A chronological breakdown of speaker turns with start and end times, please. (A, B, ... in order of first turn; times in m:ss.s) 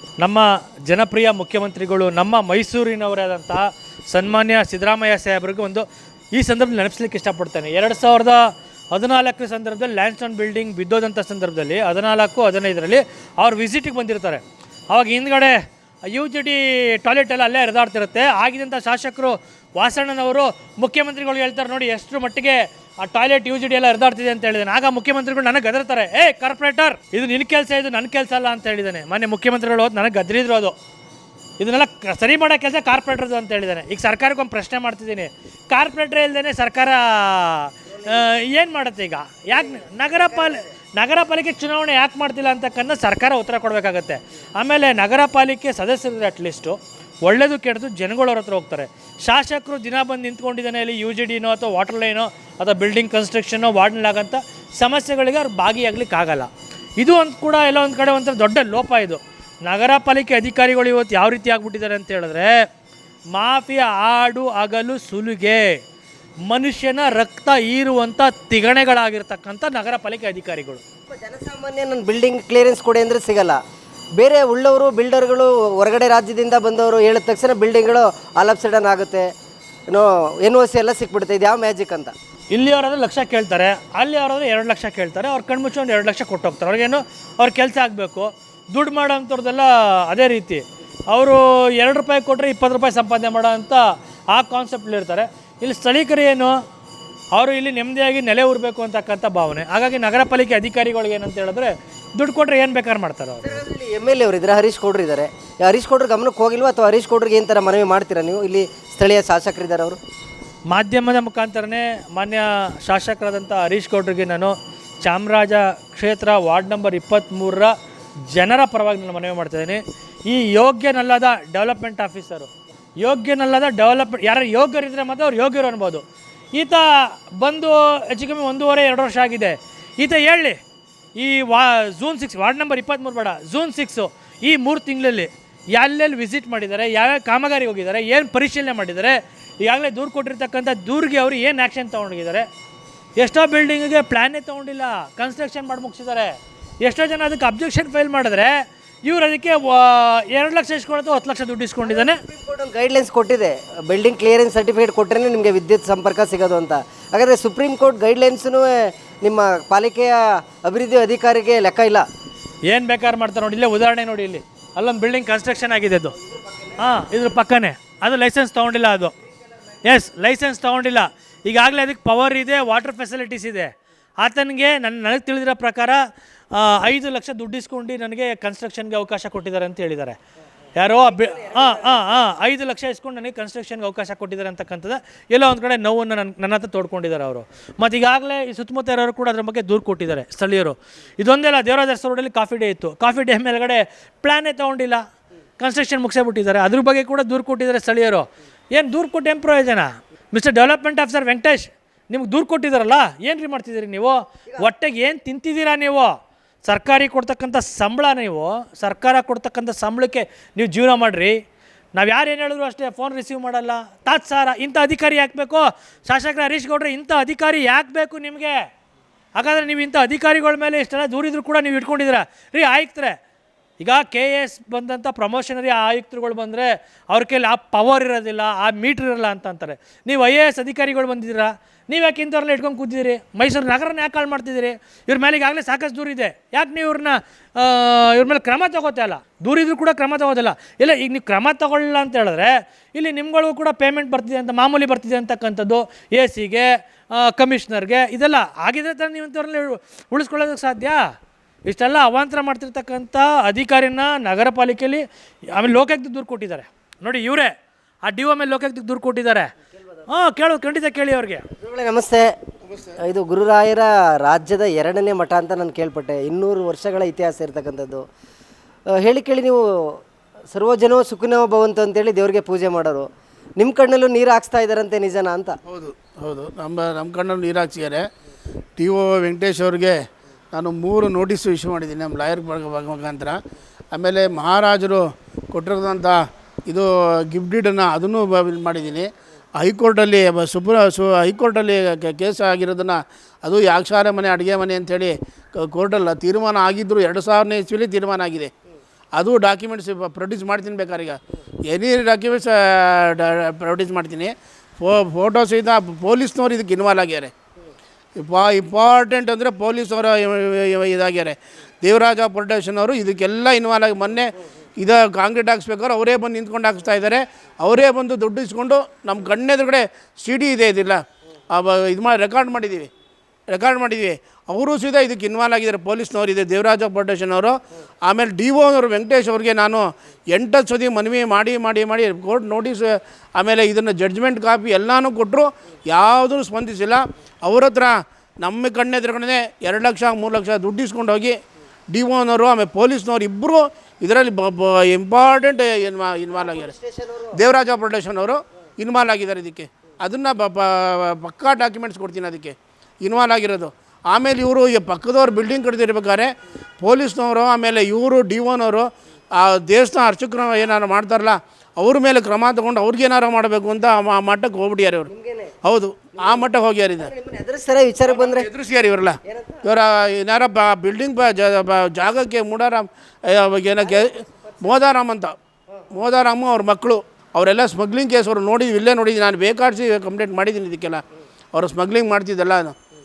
0:00.2-0:30.8 A
0:31.6-0:56.5 A
0:37.9-0:38.2 B
0:39.5-0:40.7 B
0:57.0-1:02.6 A
1:03.3-1:05.8 A
1:06.4-1:10.8 A
1:11.1-1:13.6 B
1:14.2-1:19.3 B
1:19.9-1:22.1 B
1:22.5-1:36.6 A
1:37.3-1:43.6 A
1:43.4-1:50.0 B
1:50.7-1:57.7 A
1:58.3-2:02.5 A
2:03.0-2:10.6 A
2:11.2-2:22.5 A
2:23.2-2:32.2 A
2:31.8-2:42.1 B
2:42.7-2:46.2 A
2:46.2-2:46.8 B
2:46.8-2:49.1 A
2:49.8-3:00.2 A
3:00.8-3:15.0 A
3:01.0-3:02.1 B
3:15.6-3:31.4 A
3:31.9-3:38.6 A
3:39.4-3:43.2 A
3:43.8-4:11.1 A
4:11.7-4:17.5 A
4:18.0-4:19.5 A
4:20.1-4:21.5 A
4:21.6-4:22.4 B
4:22.9-4:28.0 B
4:28.9-4:35.6 B
4:35.7-4:38.1 C
4:38.8-4:40.0 C
4:40.5-4:43.4 C
4:43.9-4:58.5 C
4:59.1-5:07.3 C
5:08.2-5:22.9 C
5:23.5-5:41.4 C
5:41.9-5:46.7 C
5:46.3-5:47.4 B
5:47.3-5:56.3 C
5:56.8-6:05.1 C
6:05.1-6:05.6 B
6:05.6-6:07.1 C
6:06.2-6:08.5 B
6:08.1-6:15.3 C
6:09.2-6:09.7 B
6:13.8-6:14.7 B
6:15.9-6:21.0 C
6:21.5-6:22.7 C